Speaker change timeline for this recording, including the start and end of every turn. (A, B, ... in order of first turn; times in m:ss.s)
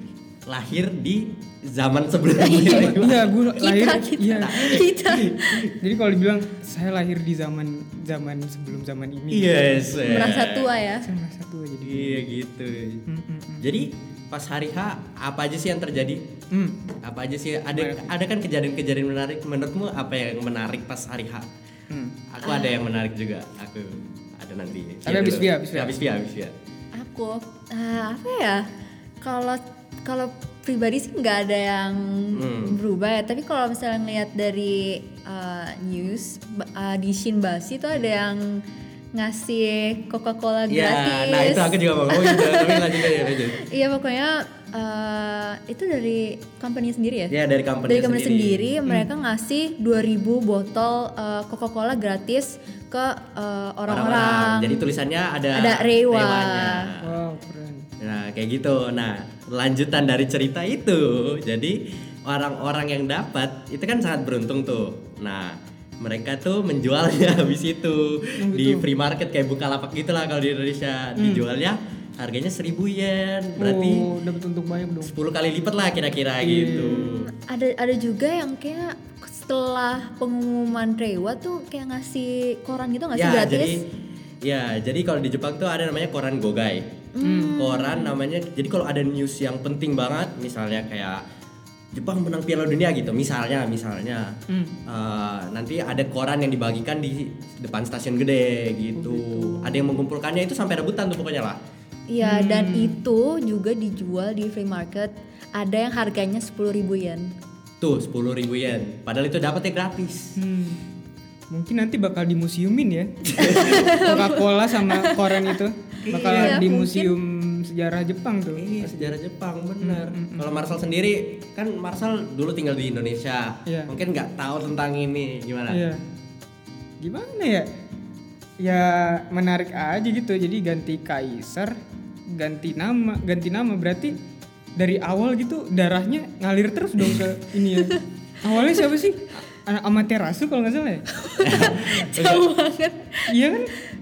0:00.4-0:03.3 A
0:02.4-0:03.0 B
0:02.7-0:04.6 C
0:03.5-0:05.7 B
0:04.4-0:05.8 A
0:05.8-0:10.0 C
0:09.3-0:10.7 A
0:10.0-0:11.1 B
0:11.0-0:12.3 C
0:11.8-0:13.0 A
0:13.1-0:13.7 C
0:13.6-0:16.3 A
0:16.5-0:16.9 C
0:17.0-0:21.5 A
0:17.7-0:18.1 C
0:21.9-0:22.2 C
0:22.3-0:26.5 A
0:22.4-0:22.8 B
0:25.0-0:26.0 C
0:26.9-0:28.7 B
0:29.2-0:47.4 B
0:32.3-0:32.8 A
0:40.7-0:43.6 A
0:47.3-0:48.7 A
0:47.9-0:54.9 B
0:53.9-0:57.2 A
0:55.5-0:56.9 B
0:57.0-0:57.9 C
0:58.0-1:14.1 A
1:08.4-1:08.9 C
1:11.2-1:11.4 C
1:13.6-1:15.1 C
1:15.0-1:17.3 A
1:16.4-1:17.2 C
1:17.2-1:23.8 B
1:23.1-1:23.8 A
1:24.4-1:26.9 A
1:27.1-1:28.1 B
1:27.2-1:27.6 C
1:27.6-1:31.2 A
1:31.9-1:41.6 A
1:34.5-1:34.8 C
1:39.0-1:40.0 C
1:42.1-1:47.3 B
1:42.2-1:43.0 C
1:47.8-1:50.4 A
1:50.4-1:50.8 C
1:51.5-1:59.2 C
1:53.3-1:53.8 A
1:53.4-1:55.6 B
1:56.0-1:56.6 A
1:56.2-1:57.1 B
1:58.5-2:05.8 A
1:59.8-2:00.5 C
2:03.6-2:03.9 C
2:05.7-2:06.0 C
2:07.0-2:07.7 C
2:08.6-2:11.8 C
2:12.3-2:14.2 C
2:14.8-2:21.0 C
2:17.7-2:18.0 B
2:21.1-2:23.4 B
2:21.4-2:22.4 A
2:23.3-2:23.7 C